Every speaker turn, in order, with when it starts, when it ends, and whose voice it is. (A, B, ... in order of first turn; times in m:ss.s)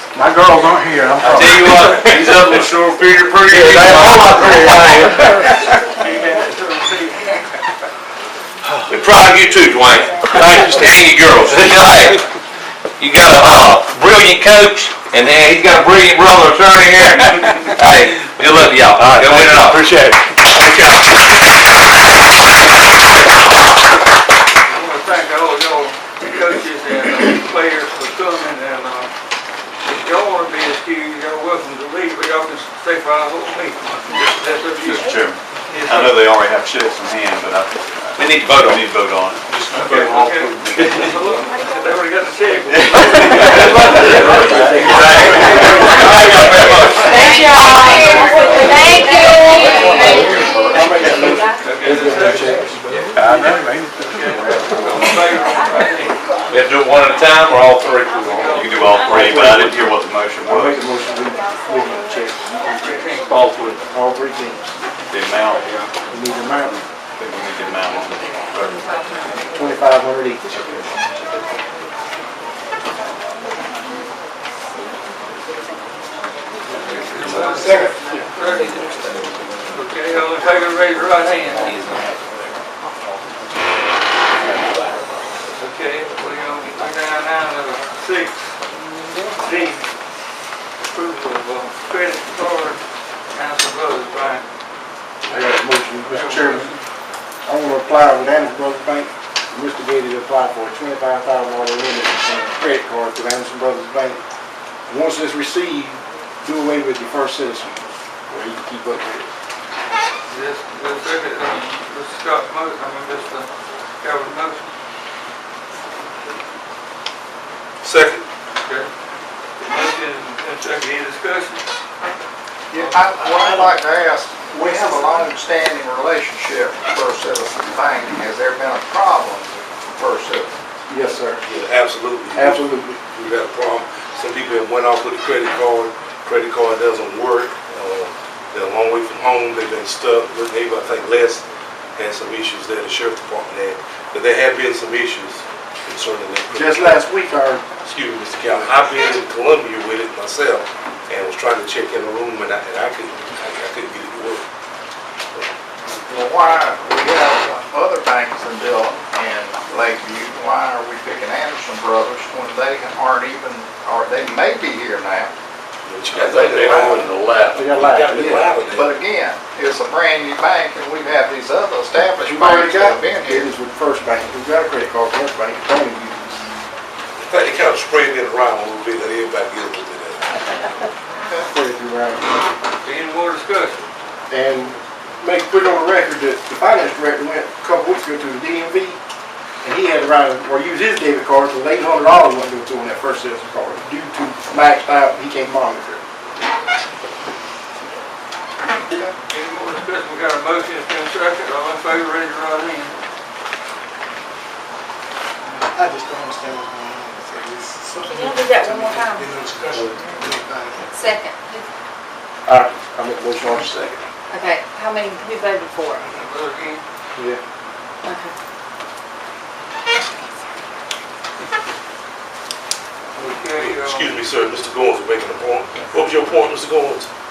0:00.1-0:02.0 A
0:01.2-0:05.5 B
0:05.9-0:07.4 C
0:08.8-0:12.3 B
0:13.0-0:19.8 B
0:19.0-0:20.8 D
0:24.6-0:29.1 C
0:29.8-0:35.1 C
0:34.8-0:39.5 E
0:35.7-0:36.2 C
0:38.2-0:38.8 B
0:39.7-0:49.1 C
0:43.3-0:47.9 B
0:44.5-0:44.9 E
0:47.0-0:50.1 F
0:49.5-0:50.6 E
0:49.8-0:52.8 A
0:51.6-0:52.6 C
0:54.0-0:56.2 C
0:56.5-0:59.0 B
0:58.3-0:59.2 C
0:58.5-1:00.8 E
0:59.0-1:02.4 A
1:02.6-1:03.3 C
1:03.3-1:03.8 B
1:03.9-1:04.8 A
1:05.1-1:05.9 E
1:06.1-1:06.8 A
1:07.2-1:08.8 E
1:09.5-1:10.4 A
1:16.6-1:18.8 C
1:17.4-1:18.0 G
1:19.7-1:21.8 C
1:21.7-1:22.2 B
1:24.5-1:24.9 B
1:25.6-1:28.6 C
1:29.3-1:29.8 C
1:30.8-1:34.4 C
1:35.3-1:36.7 A
1:36.0-1:36.8 C
1:37.4-1:44.2 A
1:44.9-1:49.3 A
1:50.3-1:53.5 C
1:54.0-1:54.6 C
1:57.8-1:58.2 D
1:58.6-1:58.9 C
1:59.6-2:01.6 C
2:02.7-2:10.5 H
2:02.8-2:03.8 G
2:04.6-2:05.2 G
2:10.9-2:11.4 A
2:11.4-2:21.4 D
2:12.3-2:13.0 A
2:22.0-2:27.0 D
2:26.5-2:27.6 A
2:27.8-2:34.4 D
2:35.8-2:45.3 H
2:45.8-2:49.0 D
2:46.1-2:47.6 B
2:47.5-2:48.6 A
2:48.7-2:53.5 H
2:52.2-2:56.5 A
2:57.2-3:00.4 D
3:01.3-3:02.3 A
3:02.8-3:03.8 C
3:04.3-3:09.0 A
3:09.6-3:16.0 A
3:19.3-3:22.9 C
3:25.4-3:30.9 G
3:28.0-3:29.3 F
3:30.9-3:31.6 F
3:32.4-3:34.0 A
3:34.3-3:36.0 F
3:36.0-3:36.8 C
3:37.2-3:37.4 A
3:38.0-3:38.3 F
3:43.2-3:44.1 C
3:43.5-3:47.1 D